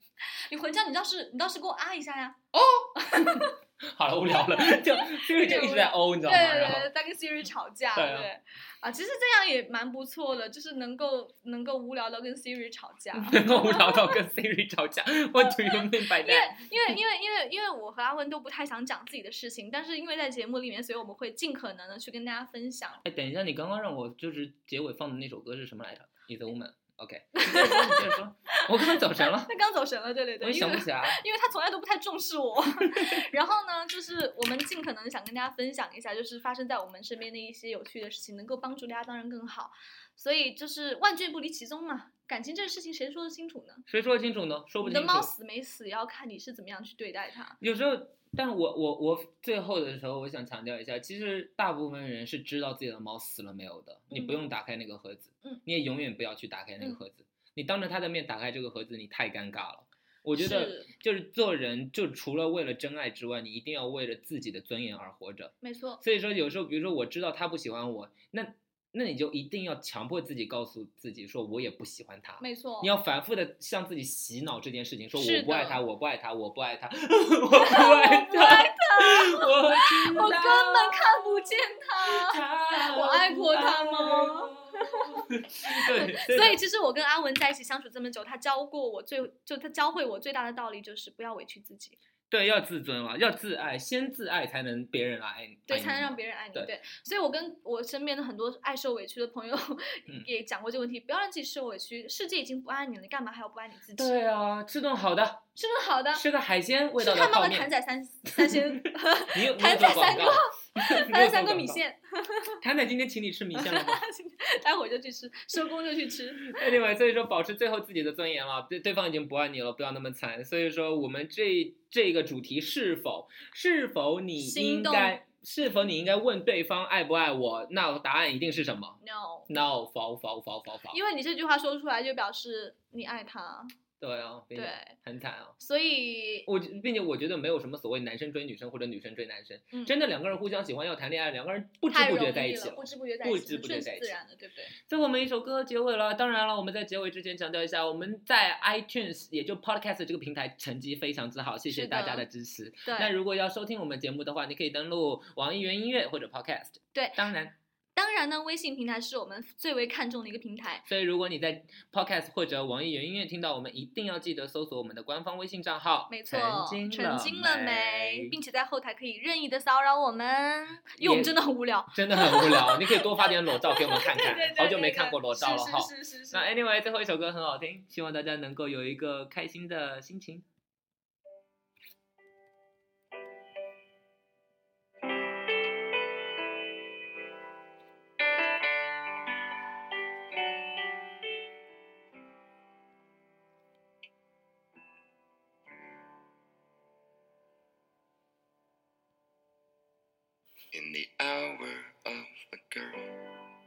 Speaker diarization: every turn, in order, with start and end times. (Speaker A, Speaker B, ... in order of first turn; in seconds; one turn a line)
Speaker A: 0.5-2.4
Speaker B: 2.5-6.9
Speaker A: 3.0-3.5
Speaker A: 4.5-14.2
Speaker B: 8.0-8.3
Speaker B: 13.1-16.9
Speaker A: 15.4-23.0
Speaker B: 23.0-29.5
Speaker A: 27.4-43.9
Speaker B: 30.4-31.2
Speaker B: 43.9-45.3
Speaker A: 44.8-47.6
Speaker B: 47.6-86.6
Speaker A: 54.1-54.4
Speaker A: 60.4-60.9
Speaker A: 65.6-66.0
Speaker A: 72.4-72.9
Speaker A: 75.2-75.8
Speaker A: 77.5-92.0
Speaker B: 92.3-96.7
Speaker A: 95.7-104.1
Speaker B: 104.0-105.5
Speaker A: 105.6-106.2
Speaker B: 106.1-107.7
Speaker A: 107.0-112.6
Speaker B: 108.4-108.8
Speaker B: 109.3-111.8
Speaker B: 112.6-114.0
Speaker A: 113.5-116.6
Speaker B: 116.4-131.0
Speaker A: 124.4-125.2
Speaker A: 129.0-129.6
Speaker A: 130.9-133.7
Speaker B: 134.0-135.6
Speaker A: 134.5-135.0
Speaker A: 135.6-136.5
Speaker B: 136.4-144.1
Speaker A: 141.9-144.8
Speaker B: 144.8-157.6
Speaker A: 151.7-152.2
Speaker A: 152.8-153.1
Speaker A: 156.9-157.3
Speaker A: 157.9-160.9
Speaker B: 160.9-168.3
Speaker A: 166.1-176.5
Speaker B: 171.0-171.3
Speaker B: 171.9-180.4
Speaker C: 200.7-203.4